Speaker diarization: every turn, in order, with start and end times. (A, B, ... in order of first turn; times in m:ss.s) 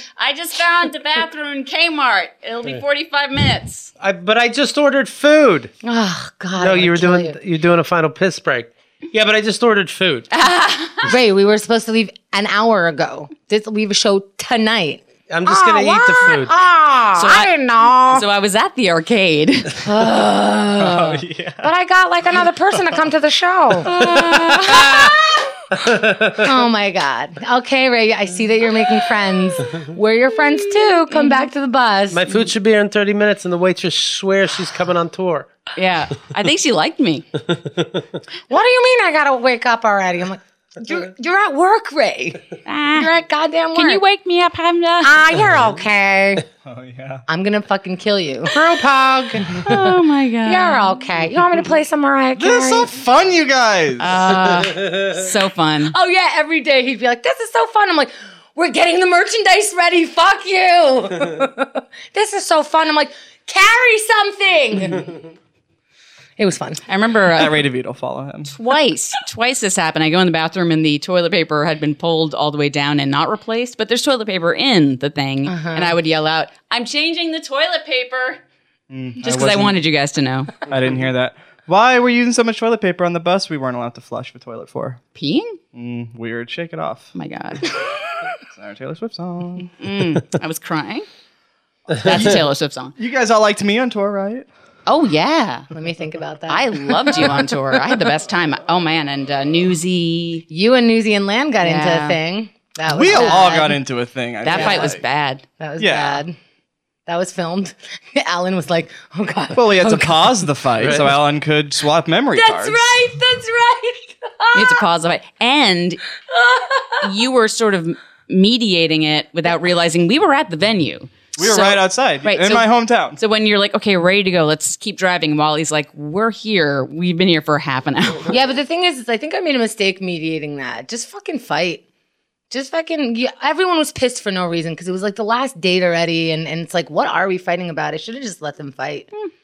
0:00.2-0:03.9 A
0:04.0-0:05.7 B
0:05.8-0:07.4 C
0:06.6-0:10.3 B
0:10.3-0:11.1 A
0:11.0-0:18.2 C
0:15.3-0:16.6 B
0:17.2-0:19.8 A
0:19.8-0:25.4 C
0:20.8-0:21.7 D
0:23.8-0:25.1 A
0:24.0-0:24.7 B
0:25.7-0:26.5 B
0:26.3-0:32.3 C
0:32.1-0:35.5 B
0:35.8-0:37.2 A
0:37.5-0:38.0 B
0:38.5-0:44.0 C
0:42.7-0:43.1 A
0:43.7-0:45.3 A
0:45.0-0:46.5 C
0:46.6-0:47.2 D
0:47.3-0:48.6 C
0:48.5-0:49.6 B
0:49.4-0:52.9 C
0:49.6-0:51.0 A
0:52.4-0:54.4 D
0:54.0-0:55.9 A
0:55.9-1:05.1 C
1:06.4-1:06.8 C
1:06.9-1:07.6 A
1:07.3-1:08.5 D
1:08.5-1:18.4 A
1:15.5-1:16.0 C
1:18.9-1:19.8 D
1:19.2-1:20.5 A
1:20.7-1:25.0 D
1:25.2-1:25.6 A
1:25.7-1:27.1 D
1:27.2-1:27.8 A
1:28.5-1:29.7 D
1:29.8-1:31.0 A
1:32.0-1:33.0 A
1:33.0-1:34.5 D
1:34.9-1:35.7 A
1:35.7-1:37.5 C
1:36.5-1:40.4 A
1:40.5-1:43.8 C
1:41.6-1:42.2 A
1:42.9-1:45.0 D
1:43.1-1:43.4 A
1:44.4-1:45.4 A
1:44.5-1:45.0 C
1:45.6-1:46.4 C
1:45.8-1:46.2 D
1:47.1-1:50.5 C
1:49.5-1:52.9 D
1:50.8-1:51.1 B
1:52.4-1:54.8 C
1:54.5-1:56.0 A
1:56.3-1:57.0 C
1:57.0-2:08.4 A
2:01.4-2:03.2 D
2:08.3-2:11.8 C
2:12.5-2:19.1 C